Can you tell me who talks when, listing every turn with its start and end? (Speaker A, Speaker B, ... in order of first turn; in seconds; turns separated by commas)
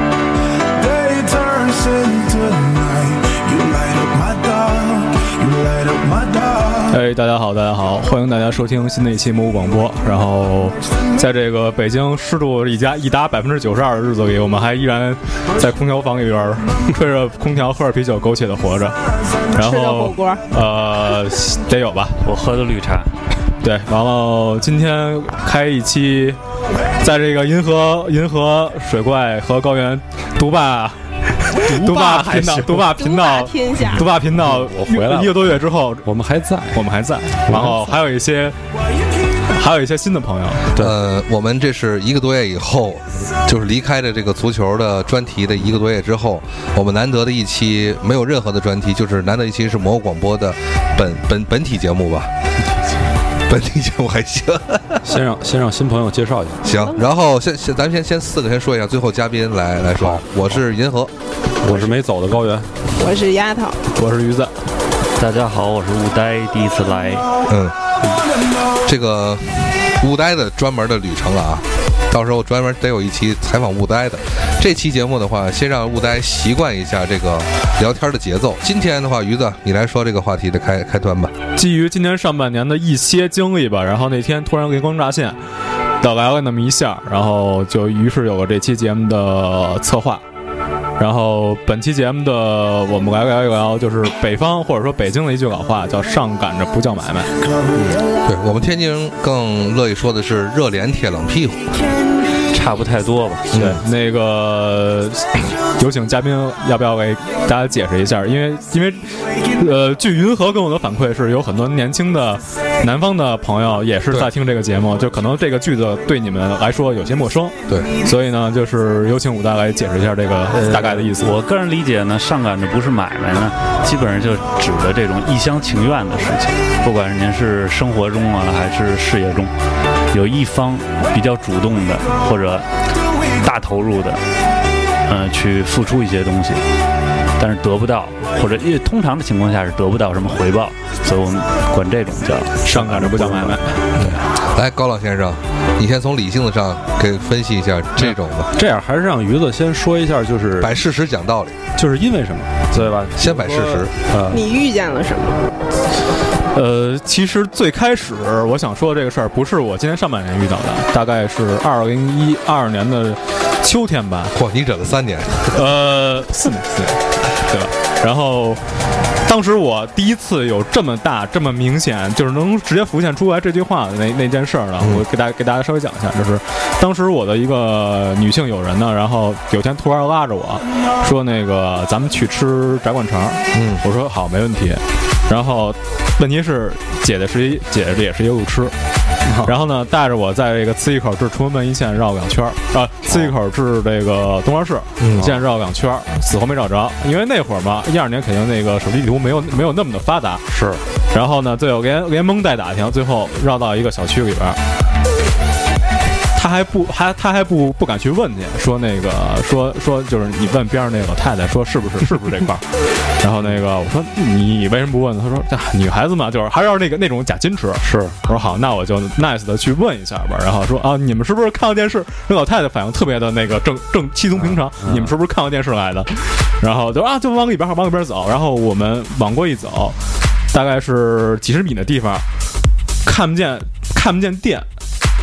Speaker A: 0.8-7.0, Speaker B: 6.9-19.0, Speaker B: 19.5-22.2, Speaker C: 19.6-20.4, Speaker D: 22.2-23.1, Speaker B: 23.6-26.4, Speaker B: 27.0-36.1, Speaker E: 31.6-32.9, Speaker C: 32.9-34.1, Speaker E: 34.3-36.9, Speaker B: 36.7-38.6, Speaker E: 37.5-37.9, Speaker B: 39.5-40.7, Speaker F: 40.8-52.4, Speaker F: 53.5-55.0, Speaker E: 55.0-56.6, Speaker F: 56.6-61.1, Speaker C: 56.7-57.0, Speaker E: 61.6-62.7, Speaker C: 63.0-63.8, Speaker B: 63.9-64.5, Speaker D: 65.2-67.3, Speaker F: 67.5-67.8, Speaker F: 68.8-81.4, Speaker B: 81.6-85.4, Speaker B: 86.0-90.2, Speaker B: 91.0-97.3, Speaker F: 98.2-101.7, Speaker D: 102.5-103.5, Speaker F: 103.5-103.8, Speaker B: 103.6-121.3, Speaker E: 120.6-121.1, Speaker D: 121.2-129.5, Speaker D: 130.1-132.7, Speaker D: 133.4-134.2, Speaker D: 135.1-136.7, Speaker D: 137.4-142.8, Speaker E: 142.7-144.1, Speaker B: 142.7-143.9, Speaker F: 144.0-148.5, Speaker E: 148.6-150.7, Speaker F: 150.6-151.7, Speaker E: 151.8-154.4, Speaker F: 153.1-153.9, Speaker C: 154.3-155.4, Speaker B: 156.5-164.3, Speaker F: 164.3-165.6, Speaker B: 165.5-168.6, Speaker B: 169.2-188.8, Speaker F: 183.5-183.8, Speaker E: 189.2-189.6, Speaker B: 189.4-200.5, Speaker E: 195.1-195.4, Speaker E: 200.5-200.8, Speaker B: 201.1-204.6, Speaker B: 206.3-212.7, Speaker B: 213.2-230.0, Speaker E: 217.8-218.2, Speaker E: 224.4-225.1, Speaker B: 230.5-232.2, Speaker B: 233.1-234.7